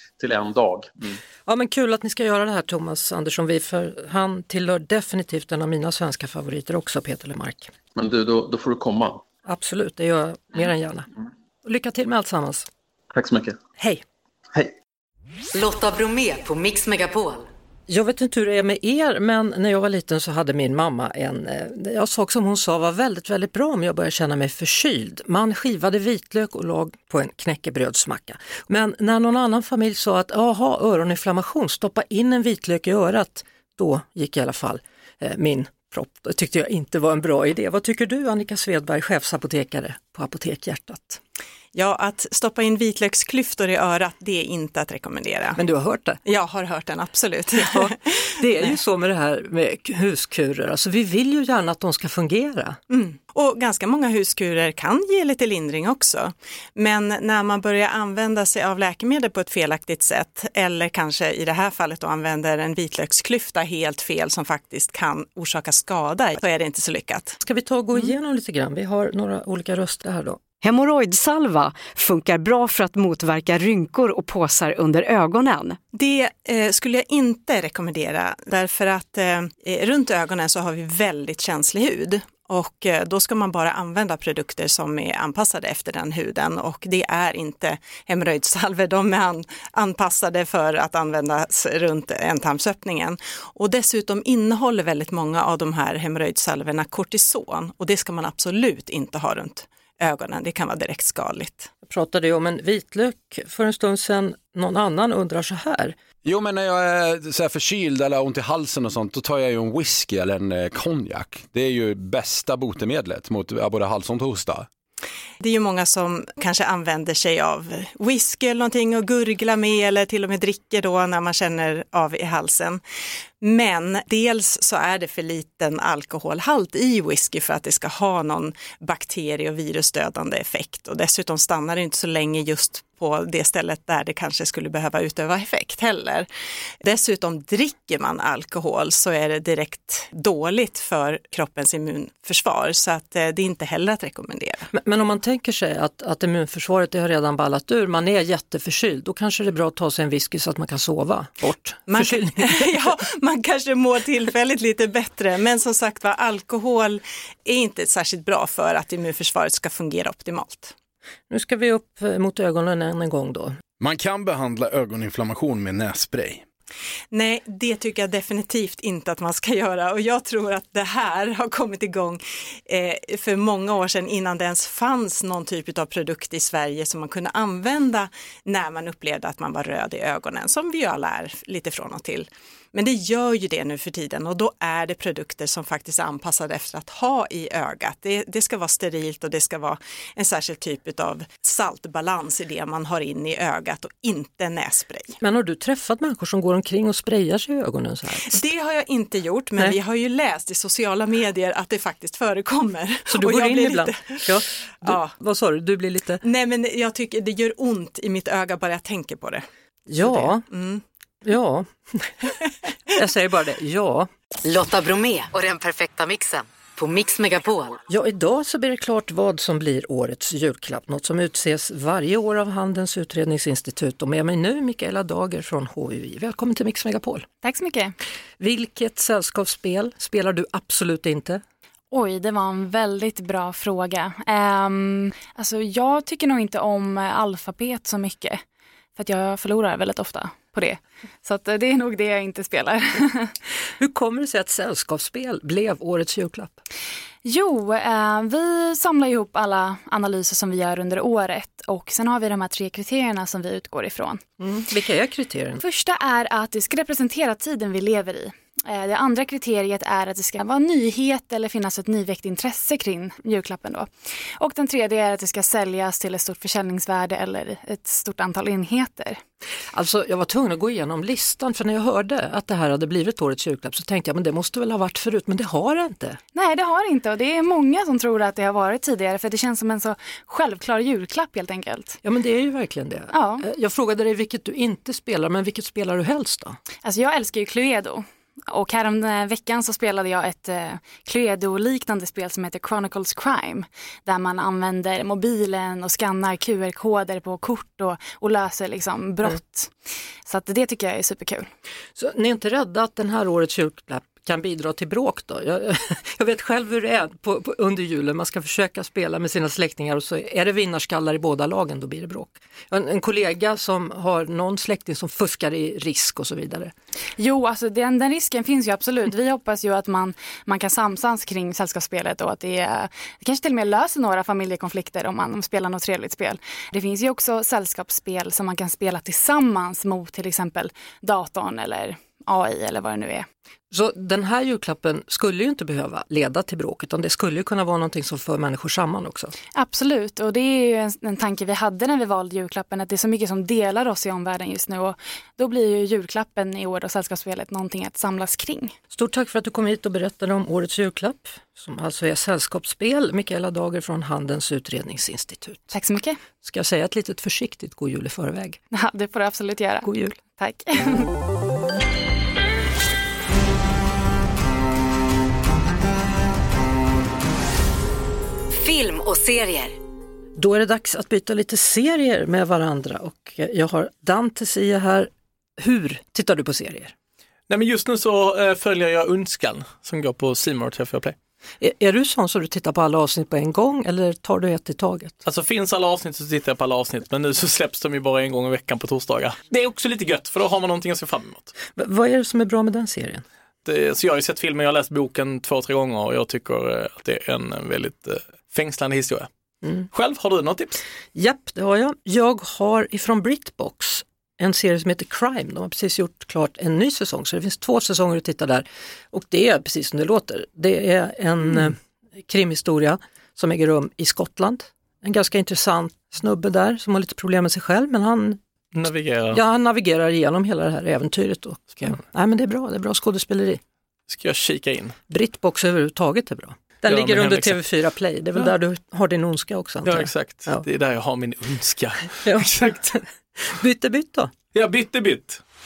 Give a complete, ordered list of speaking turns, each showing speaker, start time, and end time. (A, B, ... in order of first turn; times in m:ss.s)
0:00.2-0:01.2 A
0:01.5-0:07.7 B
0:08.0-0:09.2 A
0:09.4-0:11.1 B
0:11.6-0:12.7 B
0:13.1-0:13.6 A
0:15.5-0:17.5 C
0:17.9-0:41.2 B
0:41.7-0:45.6 D
0:45.6-0:46.2 B
0:46.2-0:47.9 D
0:47.6-0:52.8 B
0:52.9-1:07.4 D
1:07.4-1:10.4 B
1:10.6-1:15.8 E
1:15.9-1:41.7 D
1:41.9-1:46.0 B
1:46.2-1:54.7 F
1:55.4-2:02.8 D
2:03.4-2:16.3 D
2:16.8-2:24.7 D
2:24.7-2:32.7 B
2:31.9-2:40.7 D
2:41.3-2:43.6 B
2:43.8-2:46.4 G
2:47.1-3:15.2 D
3:15.2-3:18.4 B
3:18.3-3:25.1 D
3:23.1-3:26.2 B
3:26.2-3:29.4 D
3:29.9-3:30.4 B
3:30.0-3:30.8 D
3:31.2-3:32.3 B
3:32.9-3:34.1 B
3:34.4-3:37.8 C
3:37.9-3:47.3 B
3:47.4-3:48.0 H
3:48.4-3:51.4 B
3:51.9-3:58.4 H
3:59.0-4:03.4 H
4:03.8-4:06.6 B
4:07.2-4:14.2 H
4:14.4-4:15.6 B
4:15.6-4:29.2 H
4:29.7-4:36.2 B
4:36.3-4:42.0 H
4:42.0-4:46.6 B
4:43.1-4:43.4 H
4:46.8-4:59.7 H
5:00.2-5:01.5 H
5:02.0-5:16.7 B
5:17.2-5:33.3 H
5:33.7-5:39.3 B
5:39.6-5:48.8 H
5:48.9-5:55.7 B
5:55.7-5:56.2 H
5:56.4-5:58.6 B
5:58.7-6:01.1 H
5:59.8-6:00.2 B
6:08.8-6:09.6 C
6:10.4-6:16.9 B
6:17.5-6:21.2 I
6:21.6-6:25.2 B
6:25.2-6:31.5 I
6:31.7-6:33.2 B
6:33.6-6:39.3 I
6:39.9-6:40.8 I
6:41.1-6:58.4 B
6:58.7-6:59.4 I
6:59.3-7:03.6 B
7:04.1-7:05.0 I
7:05.1-7:10.7 B
7:06.8-7:07.6 I
7:09.8-7:12.6 I
7:12.2-7:14.3 B
7:14.5-7:15.4 I